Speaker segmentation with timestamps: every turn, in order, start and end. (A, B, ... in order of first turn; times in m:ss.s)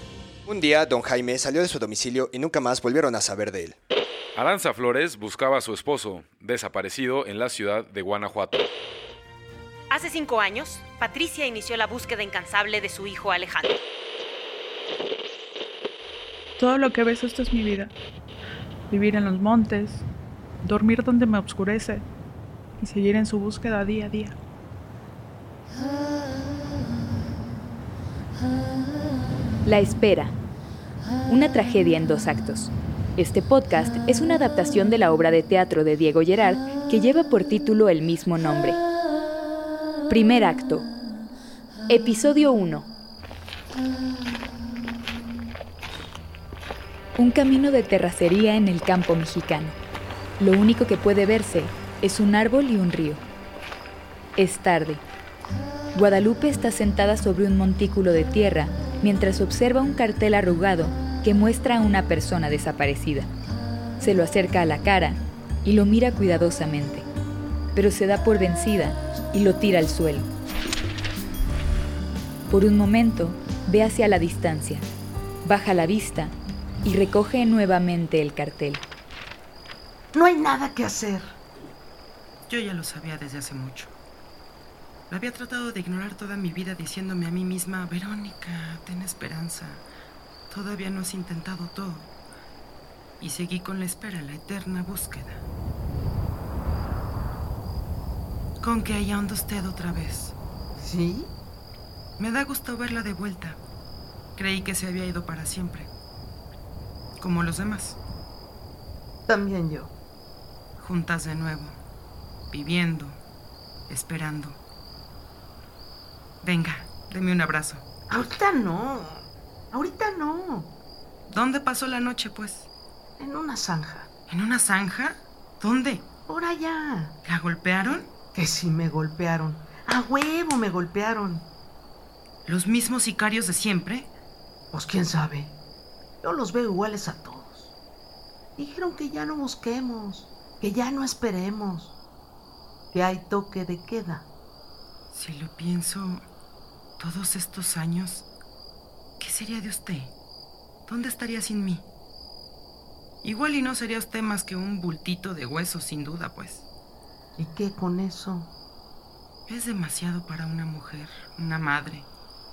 0:00.5-0:03.8 A
0:04.4-0:08.7 B
0:09.9-0:13.8 C
0:16.6-0:17.9 D
0:18.9-0:20.0 D
0:20.6-0:22.0 D
0:22.8-0:24.4 D
0:29.6-0:30.4 E
0:31.3-0:38.8 E
0:40.1-0:40.9 E
0:41.9-0:42.9 E
0:47.2-0:49.8 E
0:50.4-0:53.2 E
0:54.4-0:55.0 E
0:56.0-1:03.3 E
1:04.0-1:07.1 E
1:07.7-1:10.3 E
1:12.5-1:14.8 E
1:15.4-1:18.8 E
1:20.1-1:21.3 F
1:22.5-1:23.9 G
1:25.1-1:29.9 G
1:30.5-1:32.1 G
1:33.2-1:35.4 G
1:38.6-1:40.4 G
1:40.8-1:41.3 F
1:42.2-1:43.6 G
1:44.4-1:45.9 G
1:47.2-1:48.0 G
1:49.3-1:49.9 F
1:50.8-1:51.8 G
1:52.5-1:53.2 G
1:53.9-1:54.6 G
1:56.4-1:57.8 G
1:58.1-2:00.7 F
2:01.3-2:02.7 G
2:03.2-2:04.1 F
2:04.3-2:06.1 G
2:06.3-2:07.2 F
2:07.2-2:08.1 G
2:08.3-2:11.5 F
2:12.5-2:14.1 G
2:14.7-2:15.6 F
2:16.2-2:17.7 F
2:18.6-2:22.0 F
2:22.9-2:24.3 F
2:25.1-2:26.3 G
2:27.0-2:28.3 G
2:29.2-2:30.1 G
2:30.9-2:31.9 G
2:33.2-2:36.7 G
2:37.4-2:38.5 F
2:39.5-2:42.1 G